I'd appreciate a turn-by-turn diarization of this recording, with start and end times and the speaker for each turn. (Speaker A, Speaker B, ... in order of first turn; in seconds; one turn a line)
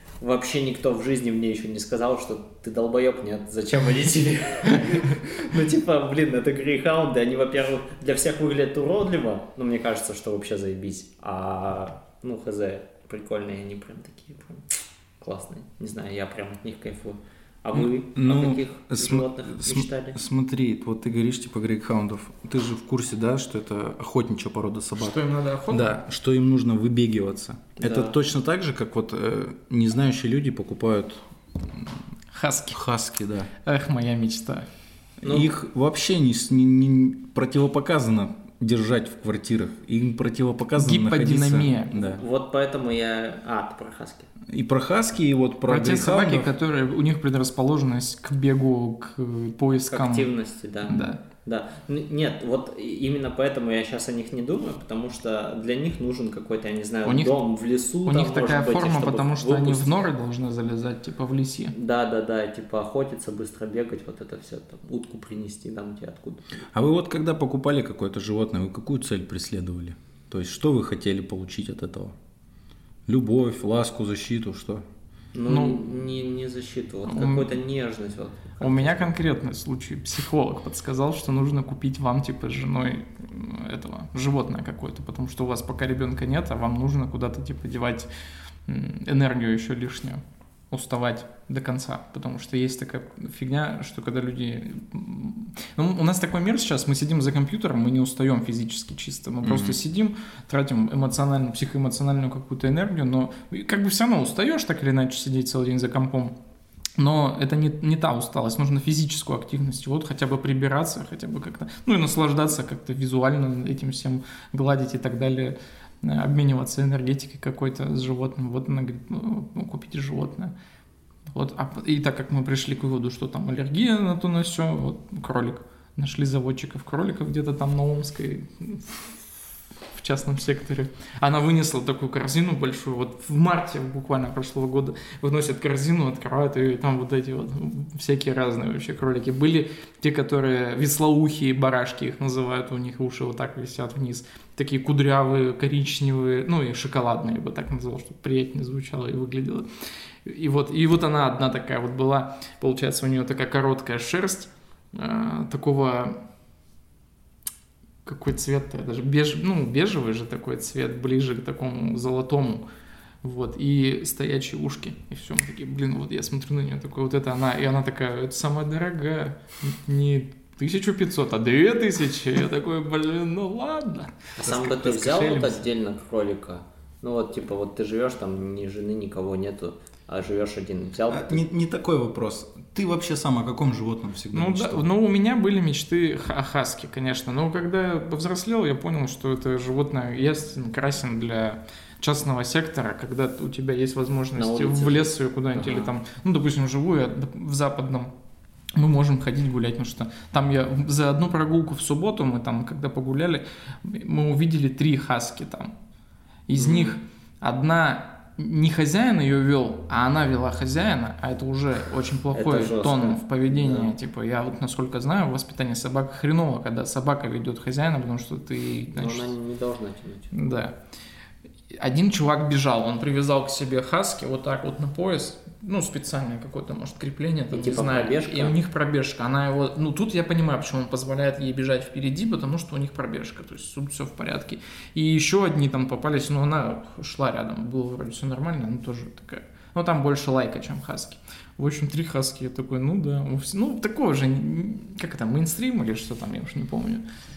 Speaker A: 0.2-14.7
Speaker A: 15.2-20.2
Speaker B: 17.7-32.0
Speaker C: 25.0-26.0
Speaker A: 27.8-28.1
Speaker C: 32.3-32.8
Speaker B: 32.7-33.5
Speaker C: 33.6-34.7
Speaker B: 35.2-42.2
Speaker A: 35.2-35.5
Speaker C: 40.8-41.9
Speaker A: 41.9-44.3
Speaker B: 44.5-46.5
Speaker C: 45.7-50.3
Speaker A: 49.9-60.0
Speaker C: 50.9-51.2
Speaker C: 57.0-57.4
Speaker C: 58.0-61.7
Speaker A: 61.7-66.4
Speaker B: 66.7-72.2
Speaker B: 73.1-74.8
Speaker A: 75.3-79.1
Speaker C: 75.5-75.9
Speaker C: 77.1-77.5
Speaker C: 78.6-88.1
Speaker C: 88.7-106.3
Speaker B: 99.4-99.8
Speaker C: 107.0-120.5
Speaker C: 121.3-129.1
Speaker C: 129.9-149.7
Speaker C: 150.2-156.2
Speaker C: 158.0-162.6
Speaker C: 163.2-174.1
Speaker A: 174.4-181.4
Speaker B: 174.4-175.6
Speaker B: 181.1-184.9
Speaker C: 184.3-198.1
Speaker A: 194.3-195.9
Speaker C: 198.8-205.7
Speaker C: 206.5-219.3
Speaker A: 206.6-207.0
Speaker A: 212.3-213.9
Speaker A: 218.9-220.3
Speaker C: 220.3-220.7
Speaker C: 221.7-247.0
Speaker A: 227.5-228.6